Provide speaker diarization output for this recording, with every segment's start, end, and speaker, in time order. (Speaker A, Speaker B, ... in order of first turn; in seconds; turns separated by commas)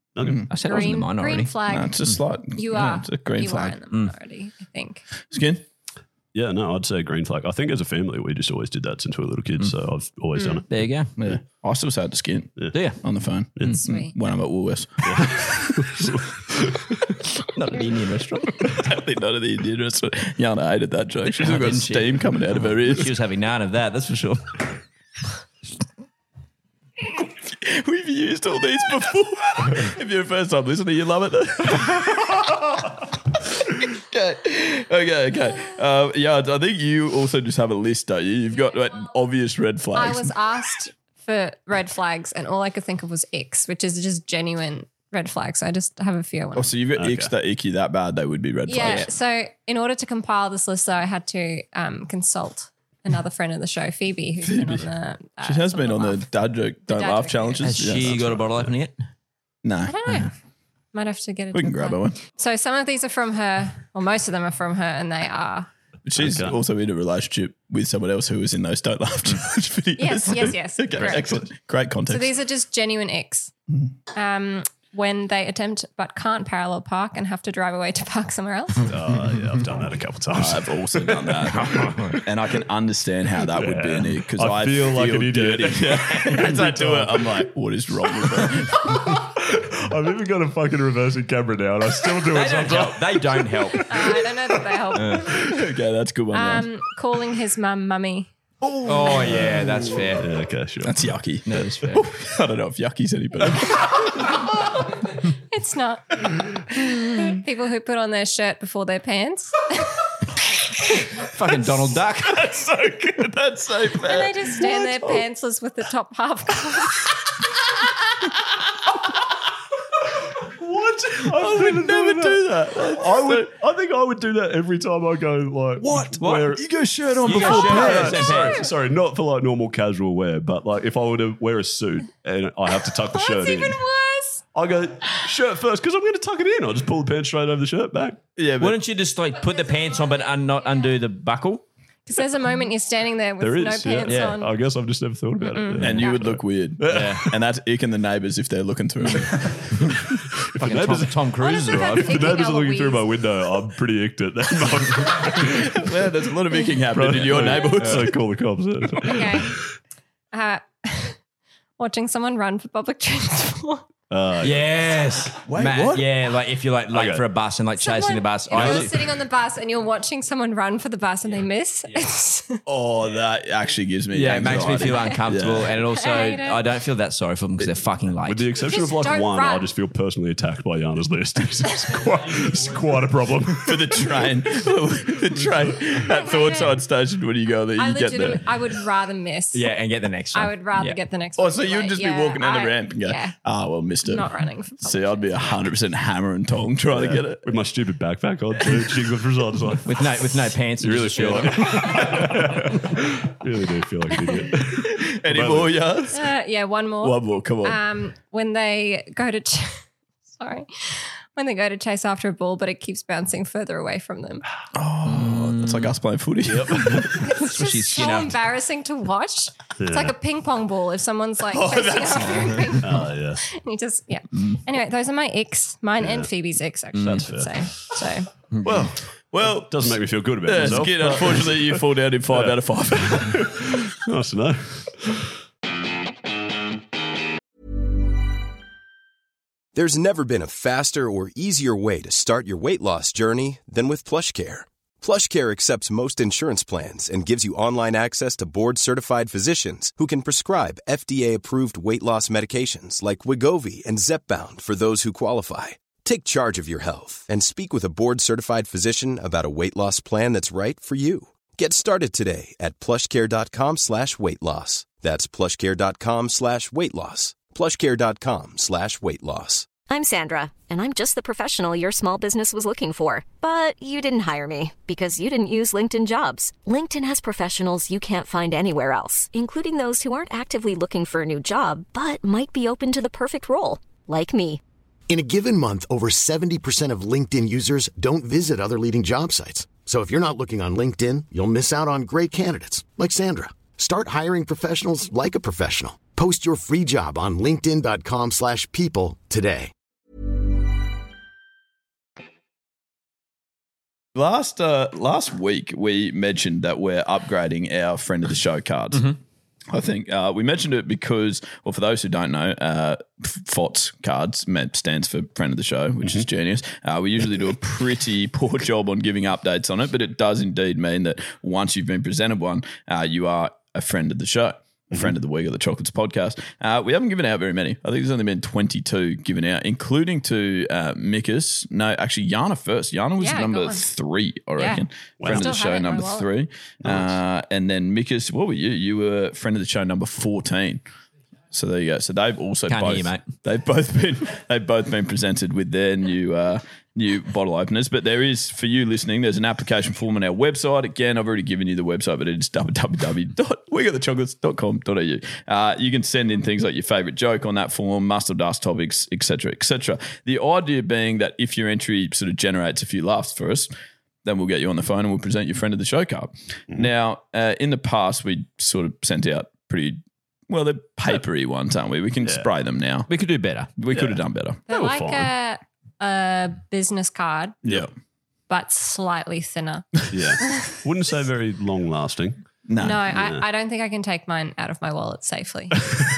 Speaker A: 0.1-0.5, Speaker B: 0.2-0.5, Speaker C: 0.5-1.5, Speaker D: 0.6-2.0, Speaker B: 1.7-3.8, Speaker D: 2.5-5.0, Speaker B: 5.3-5.6, Speaker A: 6.3-10.7, Speaker D: 10.4-10.6, Speaker C: 10.7-11.1, Speaker B: 11.2-15.6, Speaker C: 12.7-13.0, Speaker A: 13.6-13.8, Speaker D: 13.8-14.1, Speaker A: 15.0-17.0, Speaker C: 17.5-18.7, Speaker B: 18.7-23.1, Speaker C: 21.3-24.6, Speaker B: 27.0-40.4, Speaker D: 39.9-46.7, Speaker B: 46.5-49.1, Speaker A: 47.0-47.3, Speaker D: 48.7-56.2, Speaker B: 54.4-54.9, Speaker B: 55.4-58.4, Speaker D: 56.9-57.7, Speaker C: 57.6-59.0, Speaker A: 58.0-58.7, Speaker B: 59.6-60.0, Speaker D: 59.8-60.3, Speaker D: 60.9-65.7, Speaker B: 61.5-62.2, Speaker B: 66.0-72.3, Speaker A: 66.2-66.6, Speaker D: 70.0-71.3, Speaker A: 71.0-71.4, Speaker D: 72.1-73.5, Speaker D: 74.1-78.9, Speaker A: 78.9-82.0, Speaker B: 80.3-89.1, Speaker C: 81.7-82.1, Speaker A: 83.5-87.2, Speaker A: 88.7-94.6, Speaker C: 92.3-93.9, Speaker D: 93.9-95.5, Speaker C: 94.9-95.3, Speaker B: 95.4-96.7, Speaker D: 96.3-98.3, Speaker B: 98.6-99.5, Speaker C: 98.8-100.2, Speaker A: 99.1-101.1, Speaker B: 100.8-104.1, Speaker C: 101.4-102.0, Speaker D: 105.5-110.0, Speaker C: 111.2-112.4, Speaker B: 112.2-115.3, Speaker D: 114.0-117.1, Speaker A: 120.5-133.8, Speaker B: 121.3-123.5, Speaker C: 125.9-126.5, Speaker B: 126.5-128.4, Speaker C: 127.2-128.6, Speaker D: 128.3-128.7, Speaker D: 133.1-134.4, Speaker A: 134.5-138.2, Speaker B: 138.4-138.8, Speaker C: 138.6-141.6, Speaker D: 142.1-144.5, Speaker A: 143.4-147.4, Speaker C: 144.1-144.4, Speaker D: 145.4-146.2, Speaker B: 145.8-149.9, Speaker C: 146.9-147.2, Speaker A: 150.1-155.8, Speaker C: 150.6-152.3, Speaker D: 151.4-153.1, Speaker B: 155.4-158.2, Speaker A: 156.9-159.7, Speaker D: 159.1-159.6, Speaker D: 160.3-161.2, Speaker D: 161.8-163.8, Speaker A: 164.1-164.8, Speaker C: 164.4-168.9, Speaker B: 165.4-166.1, Speaker A: 166.9-167.2, Speaker D: 167.8-172.6, Speaker A: 168.5-168.9, Speaker B: 172.7-175.7, Speaker C: 174.1-178.5, Speaker D: 175.8-176.6, Speaker A: 178.2-184.2, Speaker D: 178.6-179.7, Speaker B: 183.6-188.5, Speaker A: 185.4-185.9, Speaker D: 186.0-186.8, Speaker D: 187.8-189.7, Speaker C: 189.5-191.0, Speaker D: 190.3-193.3, Speaker B: 191.4-197.4, Speaker D: 194.0-195.5, Speaker A: 196.9-200.2, Speaker C: 199.8-202.2, Speaker A: 200.8-205.8, Speaker B: 204.8-206.3, Speaker D: 206.1-209.8, Speaker B: 207.0-207.8, Speaker D: 210.3-214.4, Speaker B: 214.7-217.2, Speaker C: 215.1-215.9, Speaker A: 216.4-217.1, Speaker C: 217.0-218.3, Speaker D: 217.1-228.3, Speaker A: 219.8-220.2, Speaker B: 221.5-222.8, Speaker A: 222.8-223.4, Speaker A: 226.0-226.3, Speaker C: 226.9-227.2, Speaker A: 226.9-227.9, Speaker C: 228.5-228.9, Speaker A: 228.6-235.3, Speaker B: 229.3-233.6, Speaker E: 239.7-269.7, Speaker F: 269.8-284.6, Speaker G: 285.1-299.7, Speaker B: 304.1-309.1, Speaker B: 309.7-340.8, Speaker D: 333.2-333.8, Speaker D: 334.6-336.3, Speaker A: 335.2-335.5, Speaker A: 336.8-337.1, Speaker B: 341.5-363.7, Speaker C: 342.7-343.3, Speaker B: 364.2-373.1, Speaker C: 373.1-373.7, Speaker B: 373.8-374.6, Speaker A: 373.9-375.3, Speaker D: 374.7-377.6, Speaker B: 377.6-377.9, Speaker D: 378.5-380.8, Speaker A: 380.1-382.4, Speaker B: 382.7-383.1, Speaker D: 382.8-386.0, Speaker A: 383.1-383.4